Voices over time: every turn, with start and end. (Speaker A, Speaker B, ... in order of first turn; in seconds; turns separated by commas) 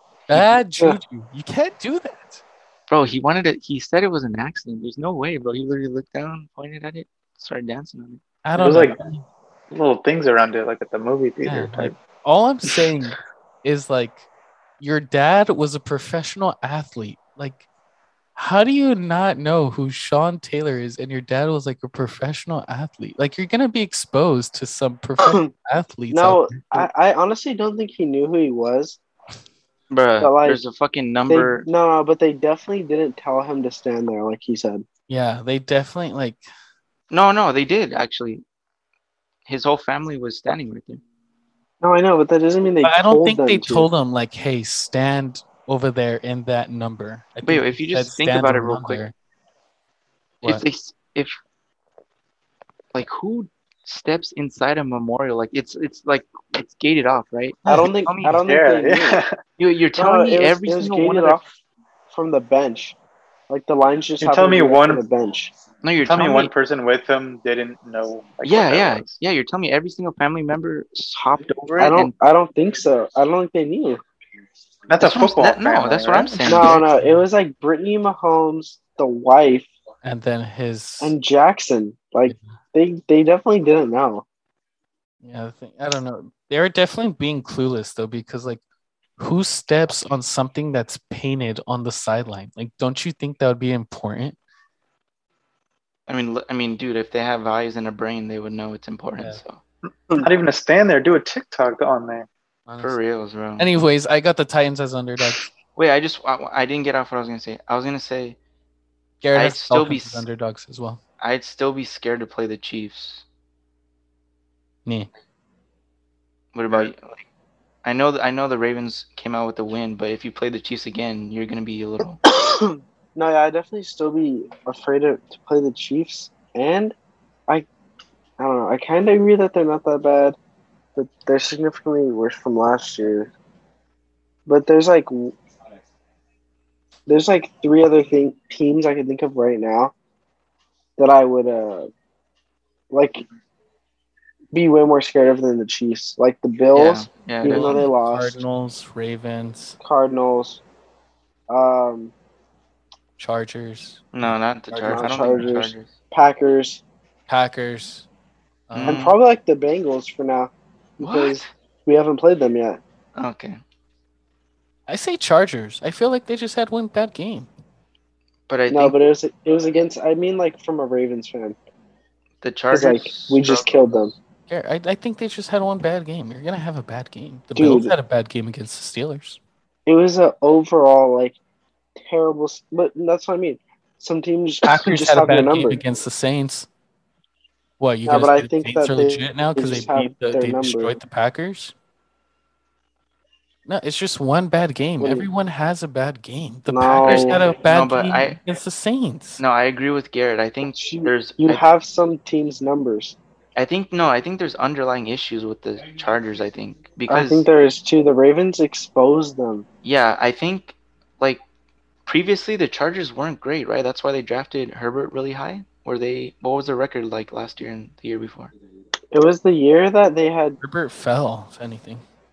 Speaker A: 0.3-2.4, Speaker B: 2.9-8.2, Speaker A: 8.4-9.2, Speaker C: 8.6-9.0, Speaker C: 9.7-11.9, Speaker A: 11.4-14.3, Speaker A: 14.8-17.6, Speaker A: 18.4-26.9, Speaker D: 25.2-25.5, Speaker D: 26.1-29.0, Speaker B: 29.9-31.7, Speaker D: 30.2-30.6, Speaker D: 31.3-34.9, Speaker A: 35.1-36.5, Speaker B: 37.1-38.4, Speaker B: 39.5-41.0, Speaker D: 41.8-43.9, Speaker A: 42.8-49.1, Speaker B: 47.5-49.1, Speaker B: 50.4-51.4, Speaker B: 52.9-58.4, Speaker A: 57.6-57.9, Speaker D: 57.7-59.2, Speaker C: 58.5-59.3, Speaker B: 59.6-61.4, Speaker D: 60.0-61.5, Speaker D: 62.1-63.0, Speaker D: 63.5-65.5, Speaker C: 64.2-65.0, Speaker B: 65.8-66.5, Speaker C: 66.1-69.1, Speaker B: 68.4-72.1, Speaker D: 71.8-74.0, Speaker C: 74.9-76.5, Speaker B: 75.0-76.8, Speaker D: 76.5-79.7, Speaker A: 76.6-77.2, Speaker A: 80.0-81.2, Speaker D: 81.0-84.2, Speaker A: 85.2-88.6, Speaker A: 89.2-94.4, Speaker B: 96.1-99.6, Speaker C: 100.2-102.3, Speaker A: 102.7-103.0, Speaker B: 102.8-103.7, Speaker A: 103.6-105.5, Speaker B: 105.8-108.4, Speaker A: 109.2-111.0, Speaker B: 109.3-110.3, Speaker B: 111.2-113.2, Speaker B: 116.5-117.2, Speaker B: 117.8-122.2, Speaker D: 122.2-127.0, Speaker D: 128.4-130.4, Speaker D: 130.9-133.3, Speaker D: 134.5-135.4, Speaker D: 137.1-139.9, Speaker D: 141.0-141.9, Speaker D: 142.9-143.2, Speaker D: 144.5-148.4, Speaker B: 146.7-147.9, Speaker A: 147.5-149.8, Speaker D: 149.8-150.6, Speaker D: 151.5-152.1, Speaker A: 153.2-155.5, Speaker B: 154.1-155.9, Speaker D: 154.8-156.8, Speaker A: 157.3-158.1, Speaker A: 158.7-159.1, Speaker B: 158.7-159.2, Speaker D: 158.9-162.8, Speaker B: 161.0-161.5, Speaker B: 163.2-163.6, Speaker A: 164.9-167.5, Speaker B: 168.5-169.0, Speaker D: 168.7-171.6, Speaker B: 172.4-173.9, Speaker D: 172.7-174.1, Speaker A: 174.5-179.4, Speaker D: 177.6-177.9, Speaker D: 179.9-181.4, Speaker D: 182.0-185.8, Speaker A: 184.6-186.7, Speaker A: 187.8-191.7, Speaker D: 188.1-191.0, Speaker A: 193.7-199.4, Speaker D: 195.0-195.3, Speaker D: 196.7-197.4, Speaker B: 197.0-198.4, Speaker B: 199.4-201.7, Speaker D: 200.7-203.2, Speaker B: 203.6-207.4, Speaker D: 207.1-209.7, Speaker B: 209.8-211.4, Speaker B: 212.1-218.5, Speaker D: 219.1-220.6, Speaker A: 220.6-222.0